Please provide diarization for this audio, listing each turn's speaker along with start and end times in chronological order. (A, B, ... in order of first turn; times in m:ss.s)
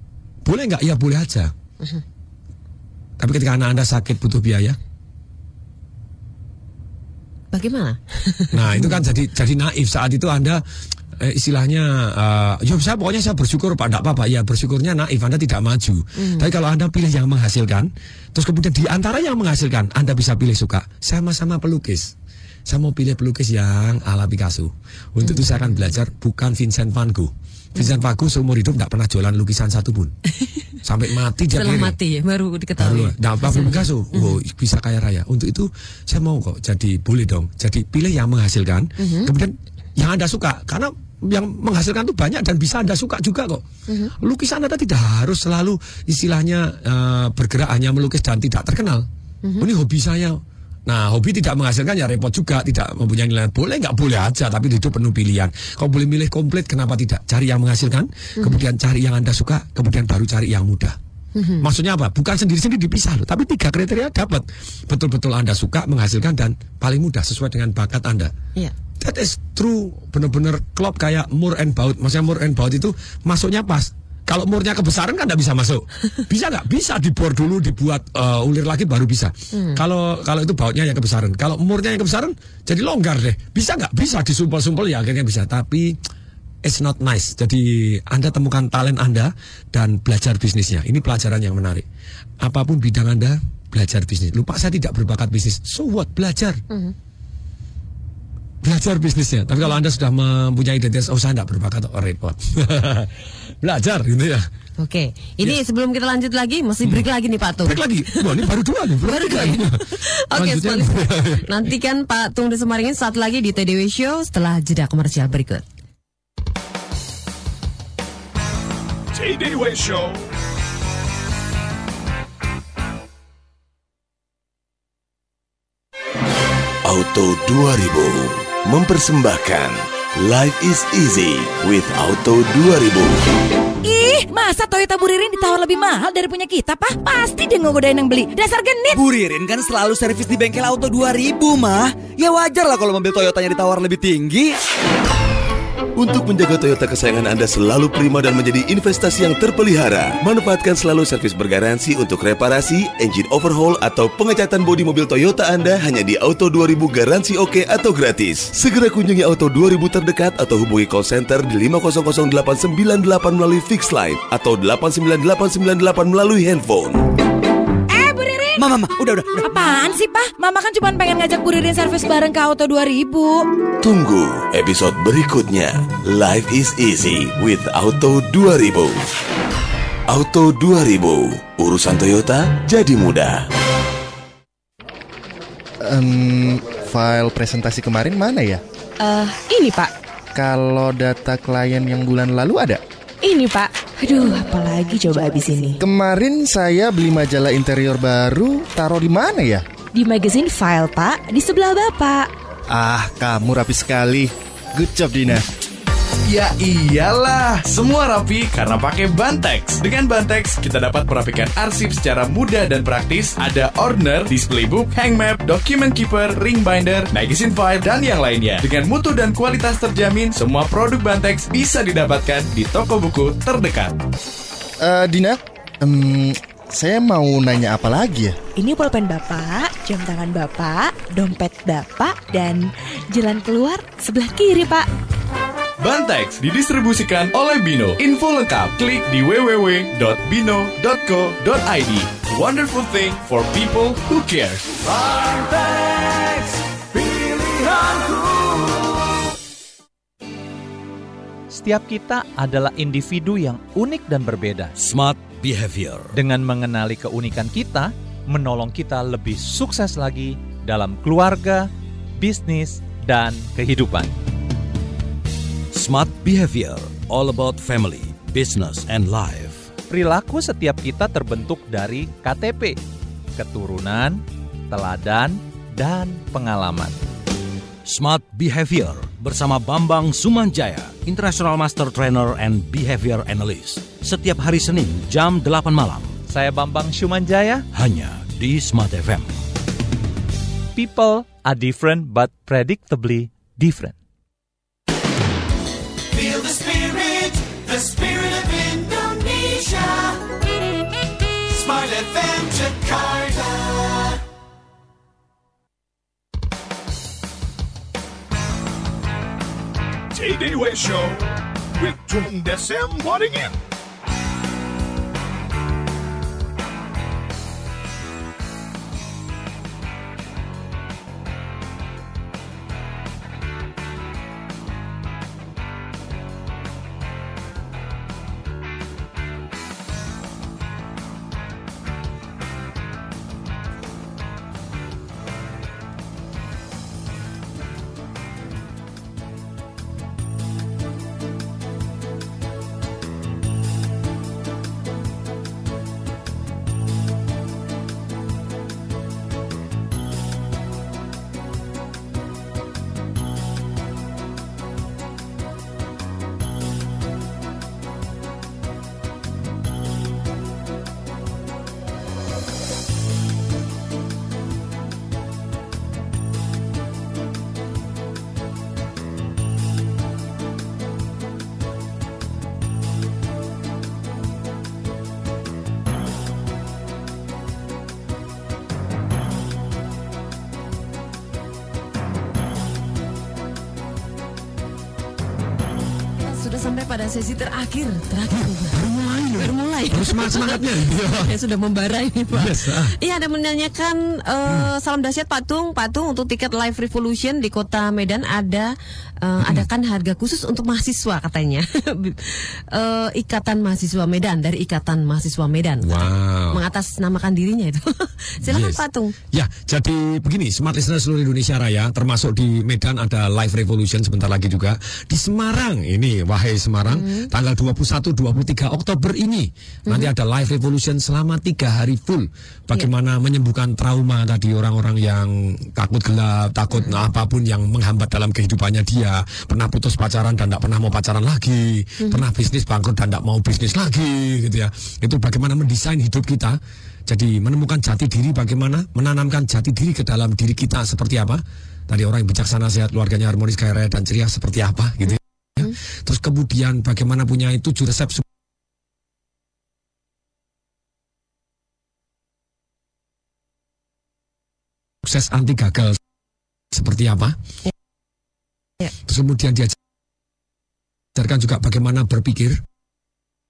0:00.4-0:01.5 A
0:03.2-0:04.8 A
0:07.5-0:09.0 B
0:08.5-0:10.6 A
0:11.2-0:22.1 A
0:16.2-0:16.5 B
0:22.7-0:30.1 A
0:25.2-0:25.8 B
0:30.8-0:32.0 A
0:31.5-0:34.4 B
0:32.8-0:43.6 A
0:39.0-0:39.3 B
0:43.9-0:44.1 B
0:44.2-0:49.0 A
0:49.6-1:01.0 A
1:01.4-1:01.7 B
1:01.6-1:08.3 A
1:09.0-1:26.0 A
1:19.5-1:19.8 B
1:26.6-1:31.8 A
1:32.4-1:36.6 A
1:38.6-1:44.4 A
1:44.8-1:48.2 B
1:47.6-1:51.5 A
1:49.0-1:55.6 B
1:59.1-2:00.3 C
2:06.8-2:13.2 D
2:13.8-2:19.0 E
2:18.9-2:24.5 F
2:26.0-2:47.0 D
2:47.9-2:48.6 E
2:48.6-2:49.4 F
2:49.4-2:53.4 E
2:53.8-2:59.0 D
3:00.1-3:03.4 D
3:05.8-3:08.6 G
3:09.0-3:09.9 H
3:10.3-3:12.8 G
3:13.2-3:15.8 H
3:15.8-3:19.6 G
3:20.0-3:22.3 H
3:22.7-3:25.4 G
3:26.2-3:44.0 I
3:44.8-3:48.4 G
3:48.6-3:54.8 H
3:55.8-4:04.8 I
4:11.5-4:14.7 J
4:14.8-4:16.2 K
4:16.1-4:24.1 J
4:25.7-4:29.7 K
4:29.9-4:32.8 J
4:33.4-4:36.9 J
4:37.8-4:46.1 K
4:46.3-4:47.6 J
4:47.7-4:49.3 K
4:50.7-4:54.0 J
5:10.1-5:13.5 C
6:26.2-6:28.8 B
6:28.7-6:31.3 A
6:29.3-6:38.7 B
6:32.3-6:32.9 A
6:39.2-6:49.1 B
6:39.4-6:39.6 A
6:45.8-6:46.6 A
6:48.4-7:28.2 A
6:56.9-6:57.3 B
7:35.0-7:36.0 A
7:36.7-7:37.4 A
7:39.0-7:39.8 A
7:41.1-7:42.6 A